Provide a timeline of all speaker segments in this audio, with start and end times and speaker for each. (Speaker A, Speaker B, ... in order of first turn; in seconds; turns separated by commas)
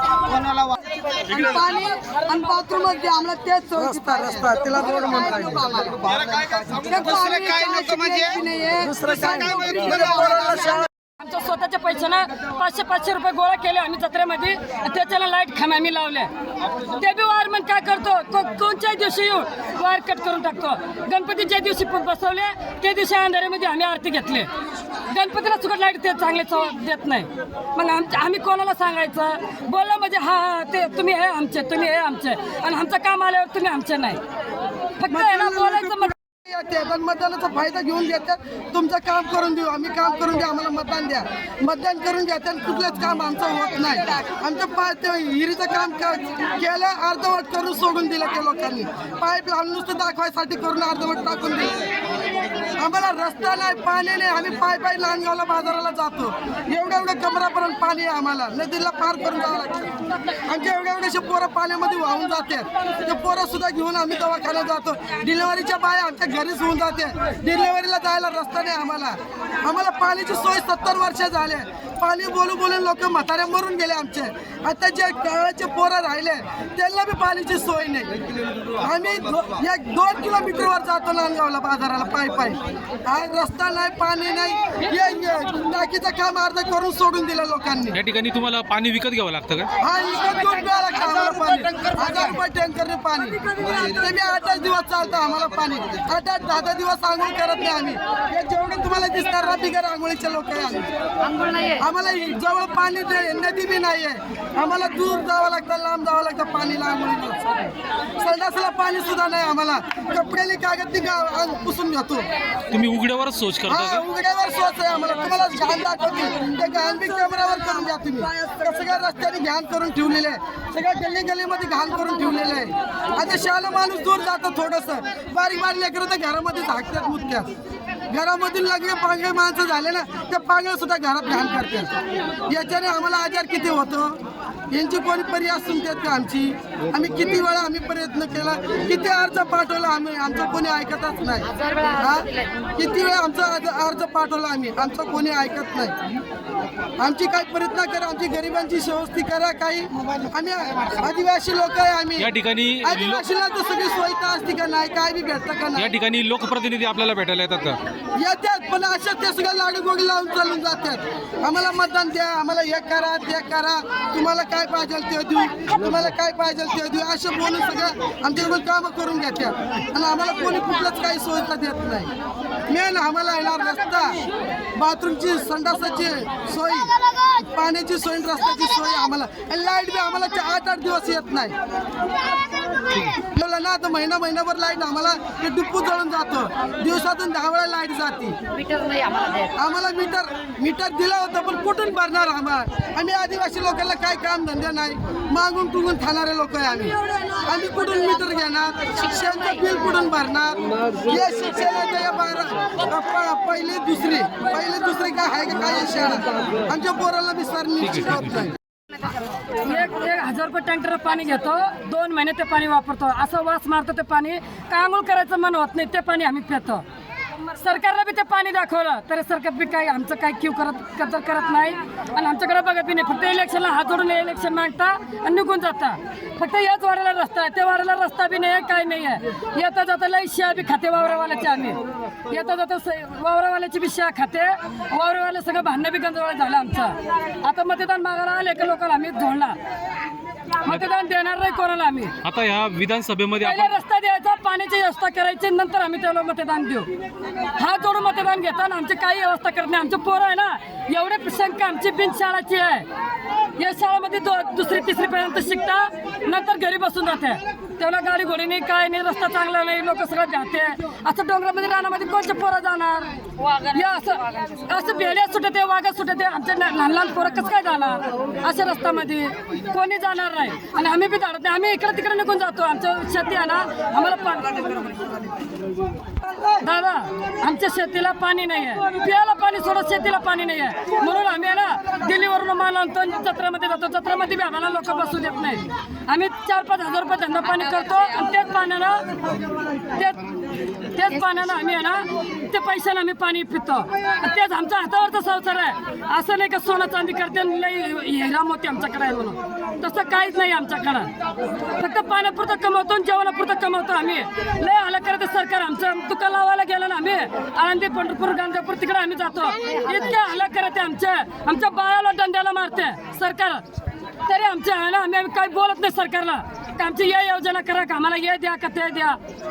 Speaker A: 0.2-0.8, Speaker B: 1.3-10.8, Speaker A: 4.1-10.9, Speaker C: 11.2-16.3, Speaker C: 16.9-24.5, Speaker C: 25.1-34.2, Speaker C: 35.0-36.1, Speaker B: 35.1-51.7, Speaker B: 52.8-59.9, Speaker B: 60.5-78.1, Speaker B: 78.8-88.0, Speaker D: 87.9-89.7, Speaker B: 89.8-100.8, Speaker E: 101.3-101.8, Speaker B: 101.8-112.3, Speaker D: 112.7-114.0, Speaker B: 113.7-127.5, Speaker B: 128.1-131.9, Speaker B: 132.5-134.2, Speaker B: 134.7-146.0, Speaker E: 141.5-142.3, Speaker B: 147.0-152.3, Speaker A: 150.0-151.1, Speaker D: 152.2-153.3, Speaker B: 152.8-155.9, Speaker D: 155.7-157.8, Speaker B: 158.2-172.1, Speaker B: 172.7-174.2, Speaker B: 174.8-181.5, Speaker B: 183.3-188.4, Speaker E: 188.6-189.5, Speaker B: 189.6-208.5, Speaker D: 207.8-208.5, Speaker C: 209.6-216.8, Speaker C: 217.6-239.6, Speaker C: 240.6-242.1, Speaker D: 242.2-243.8, Speaker C: 243.4-246.9, Speaker C: 247.6-252.8, Speaker C: 253.6-274.9, Speaker C: 276.6-289.0, Speaker C: 289.9-290.2, Speaker C: 290.9-301.1, Speaker C: 301.8-313.6, Speaker C: 314.3-319.2